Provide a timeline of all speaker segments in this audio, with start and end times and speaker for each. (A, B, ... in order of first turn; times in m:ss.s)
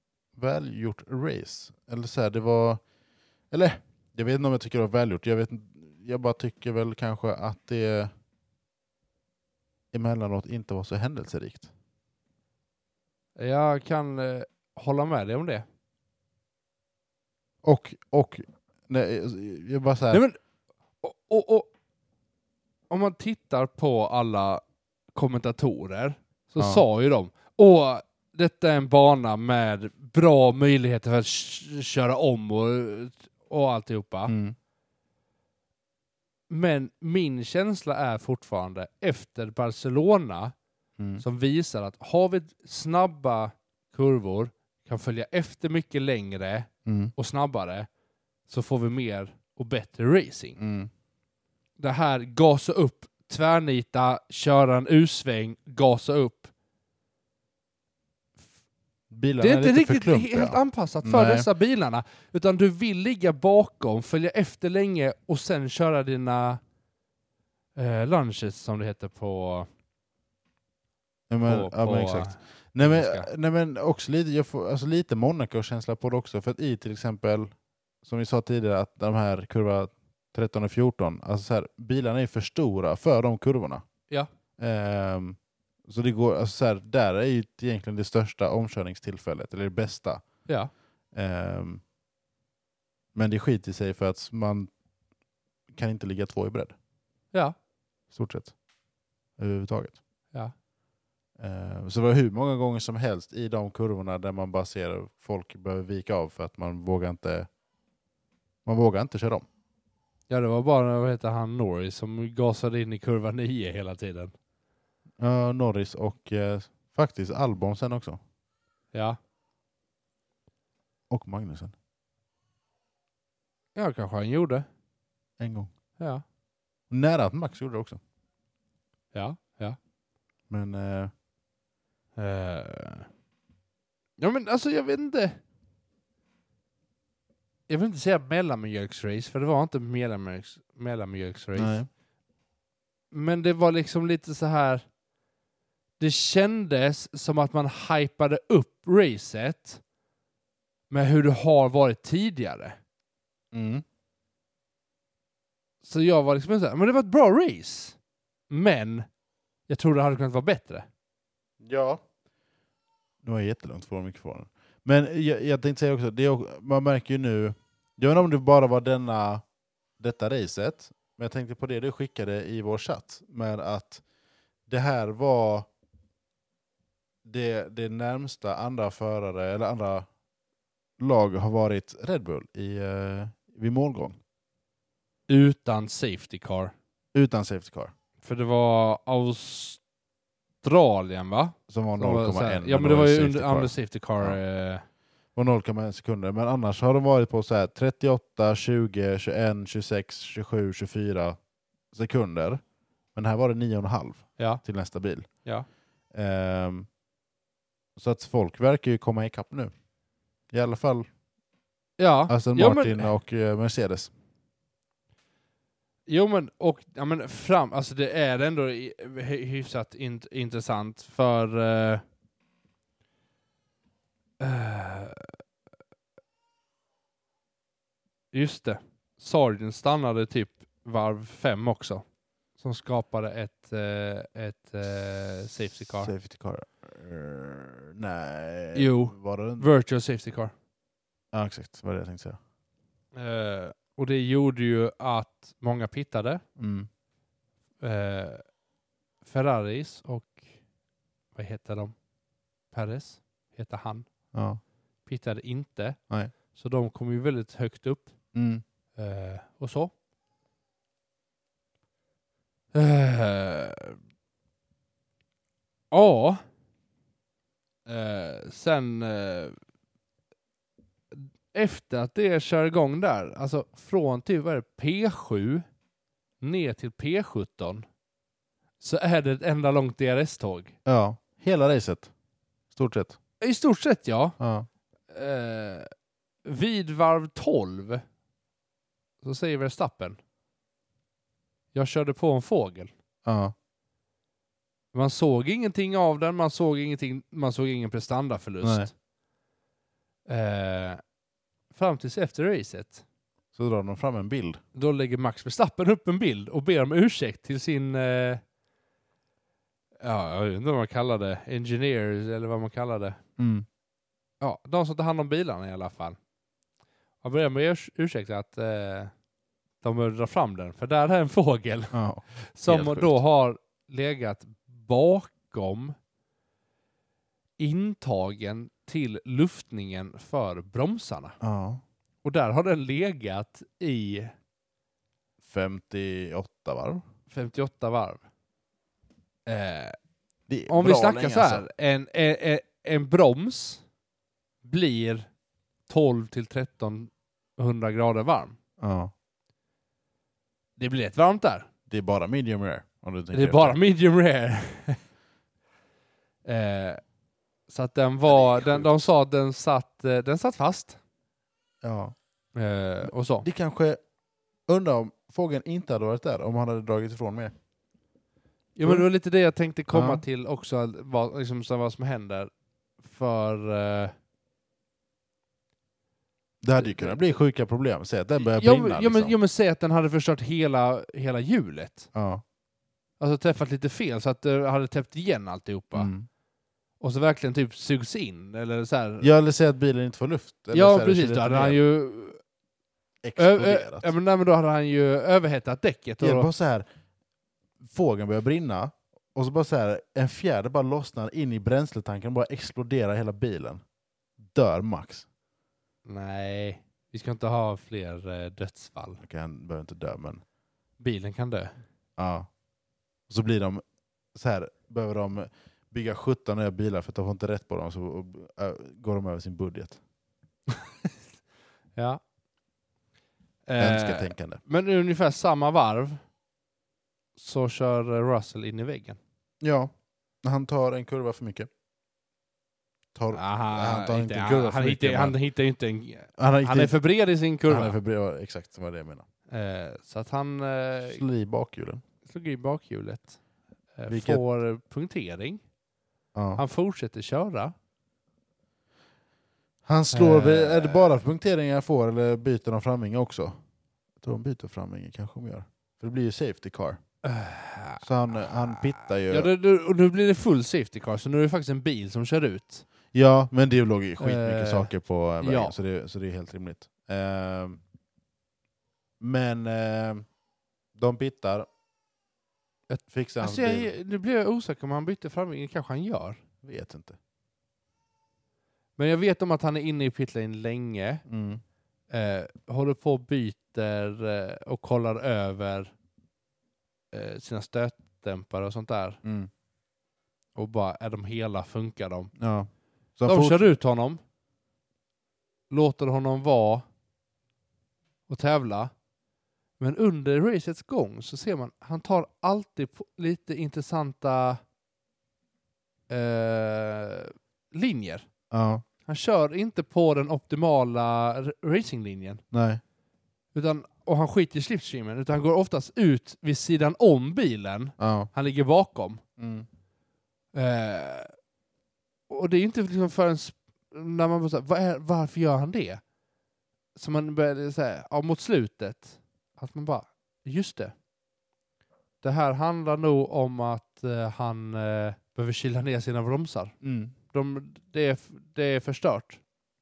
0:00.3-0:02.8 A
0:03.5-0:08.1 A
0:09.9-0:11.7 A
0:13.4-0:15.6 B
0:17.6-0:20.2 A
0:20.1-0:20.4 B
0:21.0-0:21.7 B
0:22.9-0:24.6 B
0:25.1-0:34.3 B
0:26.6-0:26.8 A
0:34.3-0:34.6 A
0:36.5-0:40.5 B
0:41.0-0:41.2 A
0:41.2-0:47.9 B
0:46.8-0:47.1 A
0:48.5-0:50.6 B
0:50.6-0:50.9 A
0:51.8-0:56.5 B
0:59.1-1:01.5 A
0:59.4-1:06.6 B
1:07.8-1:09.7 B
1:11.3-1:23.8 A
1:11.4-1:13.3 B
1:24.6-1:30.2 A
1:31.1-1:31.8 A
1:33.1-1:34.7 A
1:35.7-1:36.7 A
1:38.1-1:38.5 A
1:39.4-1:40.0 A
1:41.4-1:47.5 A
1:48.6-1:49.4 A
1:50.3-1:54.3 B
1:55.2-1:58.2 A
1:58.9-1:59.2 B
2:01.1-2:01.7 A
2:03.8-2:04.6 B
2:05.4-2:05.7 A
2:06.9-2:08.0 A
2:09.1-2:09.8 B
2:10.5-2:11.1 A
2:12.2-2:13.1 B
2:14.2-2:15.4 B
2:17.7-2:21.8 B
2:21.6-2:21.9 A
2:23.1-2:24.8 B
2:26.0-2:29.8 B
2:30.9-2:32.8 B
2:33.5-2:33.8 A
2:35.8-2:38.0 B
2:38.5-2:39.0 B
2:39.7-2:40.8 B
2:41.6-2:42.0 A
2:43.2-2:49.4 A
2:50.0-2:54.0 A
2:54.7-2:55.7 A
2:57.2-3:00.1 A
3:01.0-3:04.2 A
3:05.3-3:06.7 B
3:07.1-3:07.9 A
3:08.2-3:09.8 B
3:10.6-3:14.8 B
3:11.7-3:14.4 A
3:15.3-3:21.4 A
3:21.9-3:22.6 A
3:23.1-3:25.4 A
3:24.4-3:24.6 B
3:26.1-3:26.9 A
3:28.0-3:29.7 A
3:30.5-3:31.1 A
3:32.0-3:33.1 B
3:32.3-3:34.1 A
3:36.1-3:42.0 B
3:44.4-3:45.4 B
3:48.3-3:52.0 B
3:52.6-3:56.1 B
3:55.9-3:59.7 A
3:58.7-4:00.5 B
4:01.3-4:02.4 A
4:03.1-4:06.4 B
4:06.6-4:06.9 A
4:07.8-4:08.4 B
4:09.2-4:10.4 B
4:11.3-4:11.9 B
4:12.7-4:14.1 B
4:14.3-4:14.6 A
4:15.0-4:18.2 B
4:18.3-4:18.6 A
4:19.0-4:19.9 B
4:22.7-4:24.0 B
4:25.9-4:26.4 B
4:27.8-4:29.6 B
4:31.1-4:35.6 B
4:36.4-4:37.8 B
4:38.8-4:40.7 B
4:40.8-4:42.1 A
4:42.7-4:43.2 A
4:43.4-4:44.4 B
4:44.4-4:44.7 A
4:45.1-4:45.9 B
4:46.4-4:48.0 B
4:49.2-4:50.2 B
4:51.7-4:52.9 B
4:53.2-4:53.5 A
4:54.9-4:58.9 B
4:58.6-4:58.9 A
5:00.3-5:01.0 B
5:01.7-5:03.0 B
5:03.5-5:04.6 A
5:04.7-5:08.4 B
5:10.0-5:13.2 B
5:13.4-5:13.6 A
5:14.4-5:16.2 B
5:17.2-5:19.1 B
5:19.8-5:25.9 B
5:21.9-5:23.2 A
5:27.6-5:31.4 B
5:31.4-5:31.8 A
5:32.2-5:34.3 B
5:35.4-5:37.0 A
5:37.3-5:38.2 B
5:39.4-5:40.0 B
5:40.5-5:41.6 A
5:40.7-5:43.8 B
5:44.6-5:45.3 B
5:45.9-5:48.6 B
5:48.8-5:49.1 A
5:50.8-5:51.7 B
5:51.9-5:53.8 A
5:53.3-5:55.0 B
5:56.4-5:57.0 B
5:57.7-6:01.0 B
5:58.3-5:59.1 A
6:01.8-6:02.1 A
6:02.5-6:03.5 B
6:03.0-6:04.0 A
6:04.7-6:07.5 A
6:08.7-6:14.1 B
6:09.9-6:10.2 A
6:16.6-6:19.3 A
6:16.8-6:17.2 B
6:18.4-6:22.1 B
6:22.1-6:22.4 A
6:23.2-6:26.1 B
6:25.9-6:26.3 A
6:27.0-6:29.3 B
6:29.2-6:31.8 A
6:30.7-6:32.4 B
6:33.2-6:34.1 A
6:33.4-6:36.5 B
6:36.2-6:36.8 A
6:37.8-6:43.8 A
6:44.4-6:45.2 A
6:46.0-6:49.2 B
6:49.2-6:50.4 A
6:51.0-6:51.8 B
6:52.2-6:52.5 A
6:53.3-6:53.8 A
6:54.3-7:00.0 A
7:00.7-7:01.1 B
7:02.0-7:02.2 B
7:03.7-7:06.2 B
7:03.8-7:04.6 A
7:07.4-7:09.2 B
7:09.6-7:09.9 A
7:10.4-7:11.7 A
7:13.1-7:15.4 A
7:13.3-7:18.0 B
7:16.4-7:17.0 A
7:17.6-7:19.2 A
7:19.5-7:21.2 B
7:21.0-7:22.0 A
7:22.2-7:23.4 B
7:23.9-7:25.6 B
7:24.1-7:24.4 A
7:26.3-7:26.6 A
7:26.6-7:27.7 B
7:29.8-7:33.6 A
7:30.1-7:31.2 B
7:34.2-7:37.0 A
7:37.2-7:42.9 B
7:38.0-7:39.5 A
7:43.1-7:47.8 A
7:44.2-7:45.7 B
7:49.2-7:50.3 A
7:50.9-7:51.7 A
7:52.9-7:56.4 B
7:53.1-7:53.9 A
7:56.6-7:57.2 A
7:59.0-8:01.2 B
8:01.3-8:01.6 A
8:02.1-8:05.9 B
8:07.1-8:09.2 B
8:09.2-8:09.5 A
8:10.5-8:12.3 B
8:12.4-8:13.7 A
8:13.3-8:14.2 B
8:15.7-8:16.8 B
8:18.3-8:18.9 B
8:19.8-8:24.6 B
8:26.1-8:28.3 B
8:28.5-8:28.8 A
8:29.0-8:32.4 B
8:32.5-8:32.8 A
8:33.5-8:39.2 B
8:38.0-8:38.3 A
8:39.4-8:39.7 A
8:40.5-8:41.3 B
8:42.3-8:46.0 B
8:47.0-8:50.9 B
8:52.2-8:59.4 B
8:56.8-8:57.1 A